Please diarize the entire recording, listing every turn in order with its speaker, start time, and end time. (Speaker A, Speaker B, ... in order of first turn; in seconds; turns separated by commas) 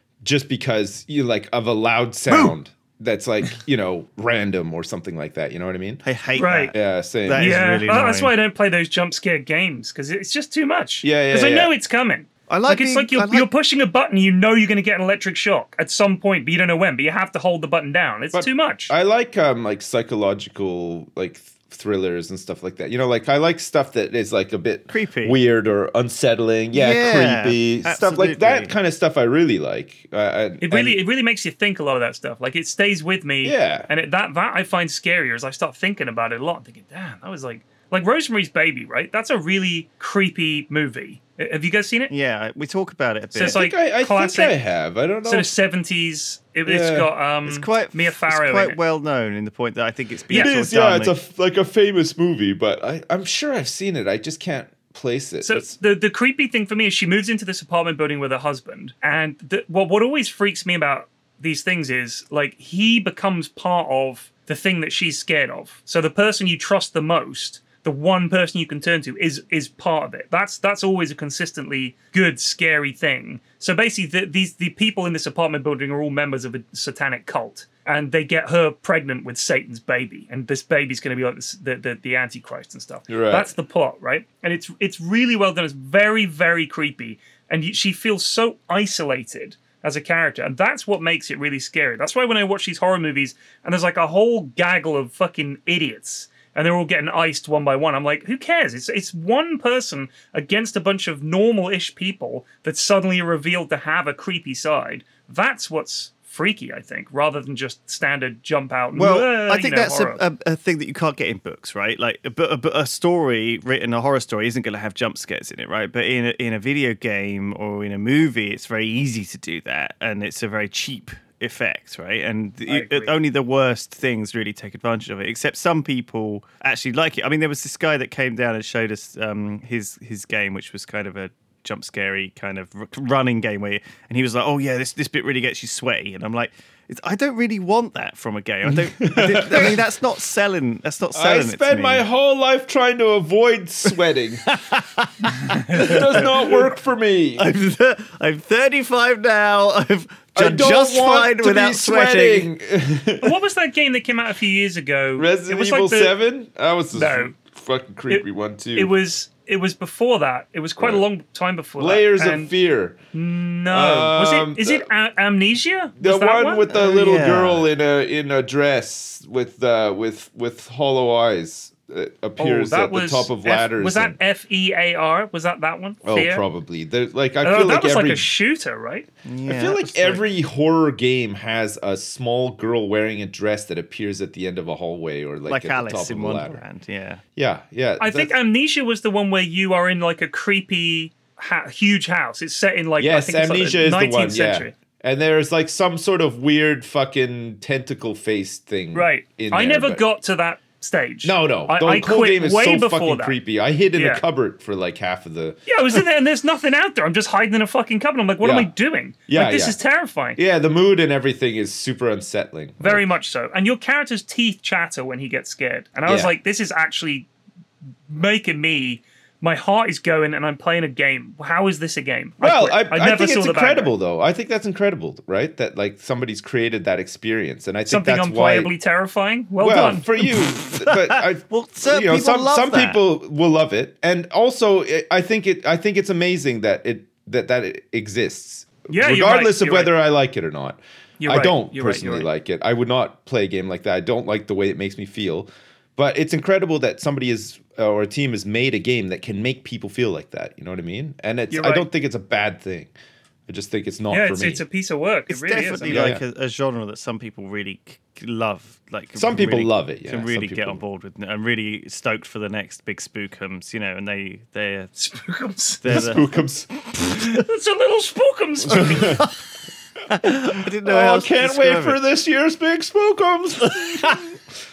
Speaker A: 0.2-6.0, Speaker B: 2.3-2.5, Speaker B: 6.0-6.7, Speaker C: 6.4-6.7, Speaker A: 6.7-7.6, Speaker B: 7.2-8.3, Speaker C: 7.3-18.9, Speaker A: 11.0-11.7, Speaker B: 12.5-13.5, Speaker A: 18.3-31.0, Speaker B: 24.9-25.4, Speaker B: 26.7-28.7, Speaker C: 30.6-42.1, Speaker A: 33.4-33.9, Speaker B: 42.1-43.6, Speaker C: 43.3-44.5, Speaker A: 43.5-45.5, Speaker C: 45.2-48.8, Speaker A: 46.6-47.1, Speaker B: 47.5-51.1, Speaker A: 50.3-55.7, Speaker C: 55.4-110.2, Speaker A: 83.1-83.5, Speaker B: 108.9-142.0, Speaker C: 122.7-123.1, Speaker A: 138.7-139.8, Speaker A: 141.1-144.5, Speaker B: 144.5-146.5, Speaker A: 145.7-147.5, Speaker B: 147.3-152.5, Speaker A: 150.3-153.4, Speaker C: 153.2-156.1, Speaker A: 155.2-158.9, Speaker C: 156.9-157.3, Speaker C: 158.1-162.5, Speaker A: 161.8-163.0, Speaker C: 163.1-166.7, Speaker A: 163.7-164.9, Speaker A: 166.0-174.2, Speaker B: 166.7-167.7, Speaker C: 172.4-176.4, Speaker A: 176.0-178.3, Speaker C: 177.4-179.1, Speaker B: 179.2-180.2, Speaker A: 179.4-186.6, Speaker B: 185.5-187.2, Speaker A: 187.3-188.3, Speaker C: 188.0-194.7, Speaker A: 193.0-200.0, Speaker C: 198.9-203.4, Speaker A: 201.2-205.6, Speaker C: 203.9-204.2, Speaker C: 205.7-210.4, Speaker A: 208.4-208.7, Speaker A: 209.3-209.8, Speaker A: 210.4-213.0, Speaker C: 212.8-217.3, Speaker A: 216.1-216.3, Speaker C: 218.1-223.9, Speaker A: 222.4-228.7, Speaker C: 227.9-230.2, Speaker A: 229.6-252.9, Speaker B: 230.6-233.0, Speaker C: 238.9-239.9, Speaker C: 241.2-242.3, Speaker C: 251.5-251.8, Speaker A: 253.5-254.6, Speaker C: 254.1-256.1, Speaker B: 255.3-264.9, Speaker A: 255.8-256.2, Speaker A: 259.1-260.8, Speaker C: 265.0-266.1, Speaker B: 265.8-266.2, Speaker A: 265.9-266.7, Speaker C: 267.1-269.2, Speaker A: 268.7-269.2, Speaker B: 270.1-272.0, Speaker A: 270.8-274.2, Speaker B: 273.7-274.2